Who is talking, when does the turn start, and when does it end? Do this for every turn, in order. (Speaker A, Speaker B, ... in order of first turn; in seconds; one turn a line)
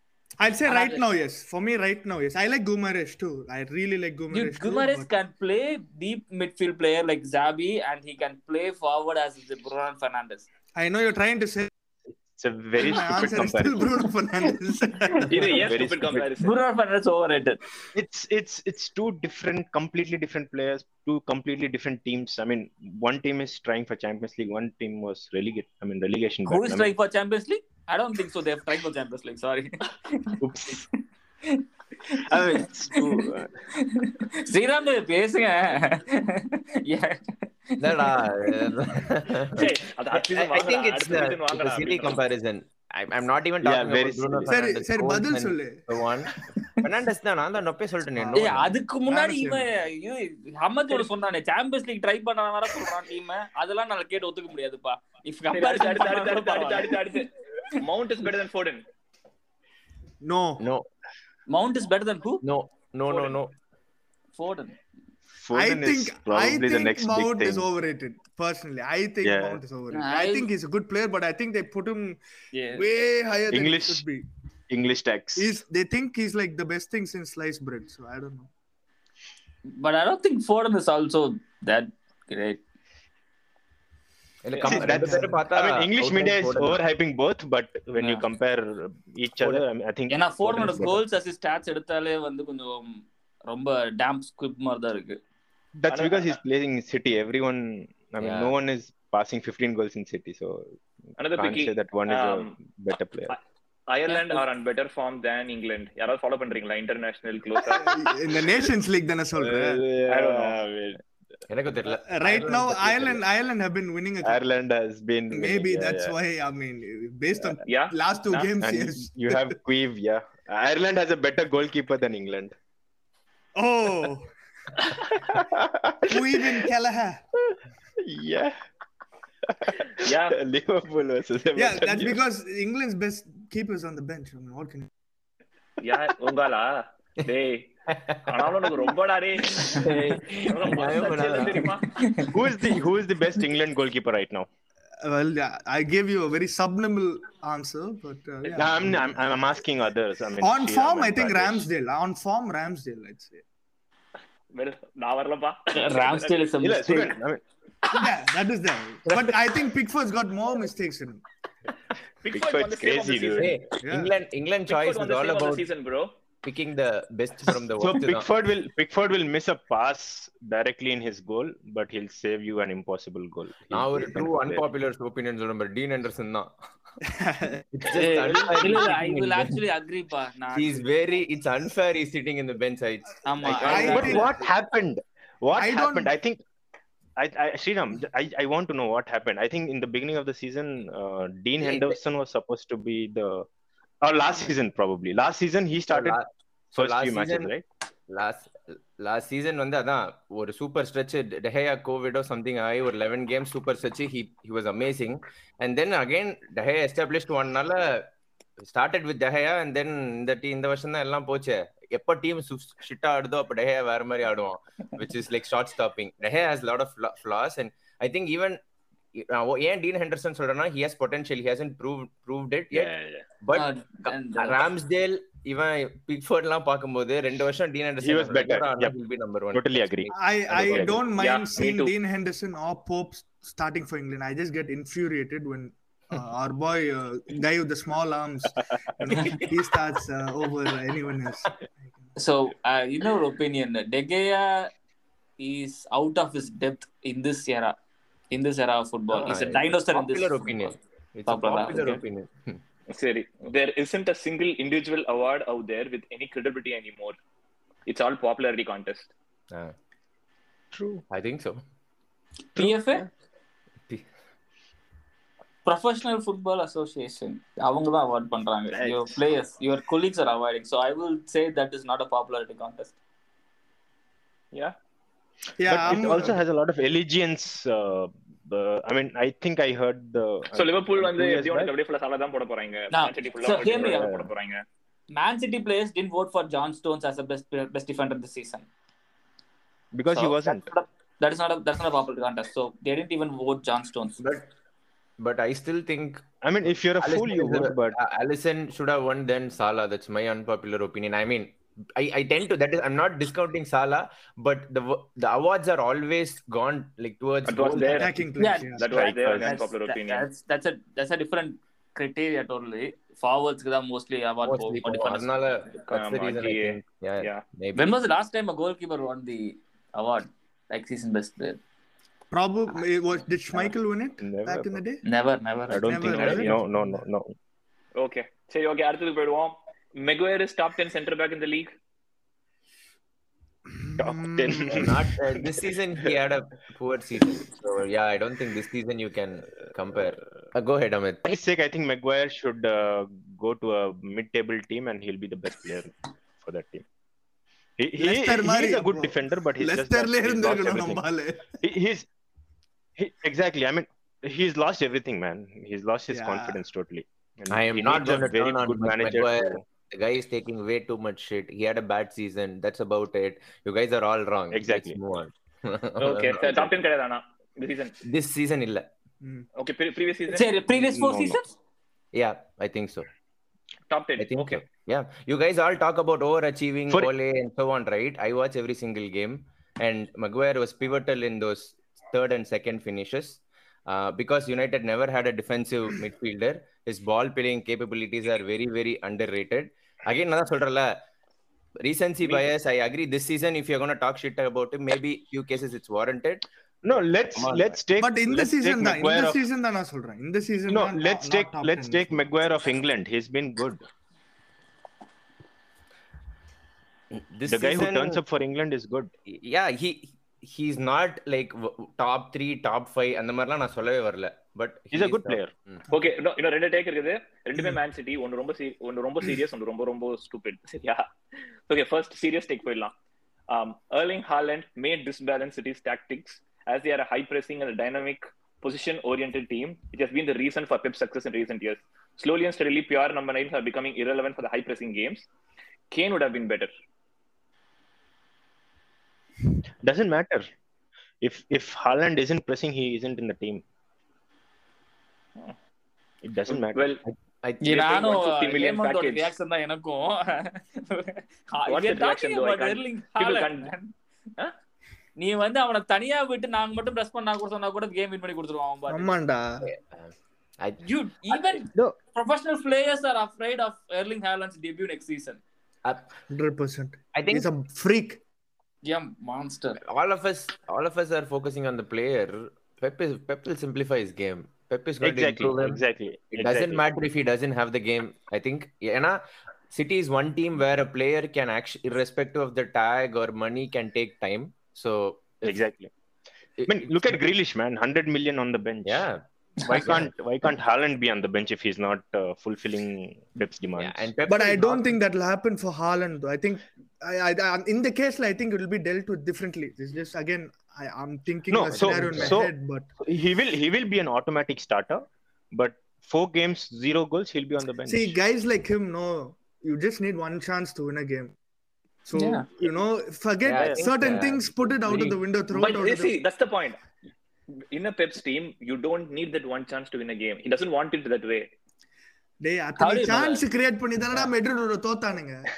Speaker A: 0.4-5.1
Speaker B: 0.7-1.1
Speaker B: 4.3-10.4
Speaker A: 10.8-11.7
Speaker C: 12.3-14.1
Speaker A: 12.8-15.6
Speaker D: 15.2-16.6
Speaker C: 15.3-16.3
Speaker B: 16.4-17.6
Speaker C: 17.9-26.9
Speaker B: 26.5-30.8
Speaker C: 30.4-30.8
Speaker B: 31.5-38.6
Speaker C: 32.2-33.6
Speaker E: 37.8-48.7
Speaker D: 39.6-42.2
Speaker C: 43.6-44.5
Speaker A: 44.5-45.8
Speaker A: 48.1-49.7
Speaker B: 48.4-57.1
Speaker D: 55.5-58.8
Speaker A: 60.2-60.6
Speaker E: 60.6-60.9
Speaker B: 61.5-62.4
Speaker E: 62.4-63.5
Speaker B: 63.1-63.3
Speaker B: 64.3-64.8
Speaker C: 65.4-67.7
Speaker A: 65.5-72.2
Speaker C: 69.2-69.6
Speaker B: 69.9-70.5
Speaker B: 72.5-73.0
Speaker A: 72.7-74.3
Speaker C: 73.5-74.0
Speaker C: 74.7-75.5
Speaker A: 75.4-78.5
Speaker B: 79.7-82.6
Speaker E: 84.5-86.8
Speaker C: 84.6-91.0
Speaker A: 84.7-85.4
Speaker B: 88.0-88.2
Speaker B: 90.1-95.2
Speaker C: 95.8-100.7
Speaker D: 95.9-96.4
Speaker E: 98.2-98.5
Speaker D: 101.2-102.5
Speaker C: 101.4-103.3
Speaker D: 103.9-107.9
Speaker B: 104.1-104.4
Speaker A: 107.8-109.8
Speaker C: 109.4-111.0
Speaker D: 110.1-110.7
Speaker E: 111.5-113.2
Speaker A: 111.9-114.4
Speaker C: 114.2-116.2
Speaker A: 115.3-119.5
Speaker D: 117.7-118.5
Speaker C: 118.6-122.5
Speaker A: 123.6-124.3
Speaker C: 124.9-126.6
Speaker A: 126.1-127.2
Speaker C: 127.5-128.6
Speaker C: 129.5-132.2
Speaker D: 130.0-130.4
Speaker A: 131.6-134.9
Speaker D: 135.8-137.7
Speaker E: 137.9-138.2
Speaker D: 138.2-139.9
Speaker E: 139.7-141.8
Speaker D: 140.5-142.0
Speaker B: 142.0-142.3
Speaker C: 142.3-144.5
Speaker A: 145.0-149.1
Speaker C: 148.5-151.6
Speaker A: 150.4-153.4
Speaker D: 154.5-156.3
Speaker B: 155.8-157.1
Speaker C: 156.6-157.4
Speaker A: 157.9-161.2
Speaker D: 162.2-163.5
Speaker C: 162.3-163.6
Speaker E: 163.4-165.7
Speaker A: 163.8-164.1
Speaker D: 164.7-166.1
Speaker E: 166.4-168.3
Speaker C: 167.8-174.6
Speaker E: 173.7-176.5
Speaker A: 177.1-177.7
Speaker E: 177.8-179.6
Speaker B: 177.9-180.8
Speaker E: 180.5-184.2
Speaker B: 183.2-184.2
Speaker C: 183.4-186.4
Speaker A: 183.7-184.3
Speaker A: 185.5-186.1
Speaker C: 187.2-193.5
Speaker E: 191.6-192.0
Speaker C: 194.0-196.2
Speaker E: 195.9-197.5
Speaker C: 196.8-197.7
Speaker E: 198.1-208.1
Speaker E: 208.6-218.6
Speaker E: 219.1-230.9
Speaker C: 222.7-223.2
Speaker B: 223.5-224.6
Speaker C: 228.0-228.9
Speaker C: 229.5-231.0
Speaker A: 230.1-241.5
Speaker D: 231.2-231.9
Speaker B: 242.2-244.7
Speaker B: 245.4-247.8
Speaker B: 248.3-252.0
Speaker E: 249.1-252.6
Speaker D: 252.9-257.2
Speaker D: 257.9-259.1
Speaker C: 260.7-261.0
Speaker E: 261.1-261.6
Speaker B: 262.6-263.1
Speaker B: 265.6-273.0
Speaker C: 268.7-269.1
Speaker A: 275.6-276.4
Speaker C: 275.7-281.7
Speaker D: 280.5-284.6
Speaker B: 282.9-284.2
Speaker C: 283.7-284.3
Speaker B: 285.1-288.7
Speaker C: 289.9-290.7
Speaker B: 290.1-294.2
Speaker E: 294.2-294.5
Speaker E: 295.2-296.3
Speaker C: 296.4-298.0
Speaker E: 297.0-308.3
Speaker D: 307.5-308.1
Speaker A: 307.8-308.9
Speaker B: 308.4-315.8
Speaker D: 308.8-310.3
Speaker C: 308.8-309.6
Speaker E: 314.4-317.9
Speaker D: 315.9-317.4
Speaker B: 317.8-321.6
Speaker A: 322.3-325.0
Speaker C: 323.5-324.8
Speaker B: 325.1-326.0
Speaker C: 325.7-327.3
Speaker A: 325.8-326.9
Speaker E: 326.1-326.4
Speaker D: 328.0-331.7
Speaker A: 333.7-334.8
Speaker C: 334.0-335.6
Speaker E: 334.7-341.4
Speaker C: 341.3-346.8
Speaker C: 347.8-351.0
Speaker A: 348.0-351.6
Speaker C: 351.6-352.1
Speaker C: 353.0-359.6
Speaker A: 356.1-356.6
Speaker E: 357.5-366.8
Speaker C: 364.5-365.0
Speaker D: 366.0-367.9
Speaker E: 368.0-368.9
Speaker D: 369.6-370.5
Speaker B: 370.3-371.5
Speaker C: 370.7-371.4
Speaker E: 372.1-373.1
Speaker D: 373.9-374.6
Speaker E: 374.2-391.0
Speaker E: 391.8-397.8
Speaker C: 396.8-399.4
Speaker A: 398.0-402.2
Speaker C: 400.7-403.8
Speaker E: 407.1-408.2
Speaker C: 407.5-409.1
Speaker E: 409.3-415.8
Speaker C: 414.9-415.5
Speaker D: 415.9-421.1
Speaker D: 421.7-422.9
Speaker D: 423.5-435.2
Speaker D: 435.9-436.7
Speaker C: 439.8-440.5
Speaker C: 441.2-443.6
Speaker C: 446.2-447.1
Speaker D: 446.5-447.0
Speaker E: 447.4-447.9
Speaker B: 447.6-453.9
Speaker D: 447.7-449.3
Speaker D: 451.7-453.7
Speaker B: 455.2-459.1
Speaker A: 458.9-459.7
Speaker E: 459.6-460.9
Speaker B: 460.8-465.4
Speaker E: 465.8-466.1
Speaker A: 466.3-468.2
Speaker E: 467.1-467.5
Speaker B: 468.9-469.8
Speaker E: 469.8-475.8
Speaker C: 475.0-476.8
Speaker E: 476.3-485.6
Speaker C: 485.4-485.9
Speaker E: 486.6-487.1
Speaker C: 486.7-489.1
Speaker E: 488.9-490.1
Speaker C: 489.6-494.0
Speaker E: 493.8-495.0
Speaker A: 494.3-502.9
Speaker C: 501.5-508.2
Speaker E: 501.8-502.3
Speaker A: 507.9-511.3
Speaker A: 512.1-516.1
Speaker B: 512.1-512.5
Speaker E: 513.5-515.2
Speaker C: 513.6-513.8
Speaker D: 515.5-516.8
Speaker D: 517.7-521.5
Speaker A: 522.4-525.5
Speaker B: 522.8-523.5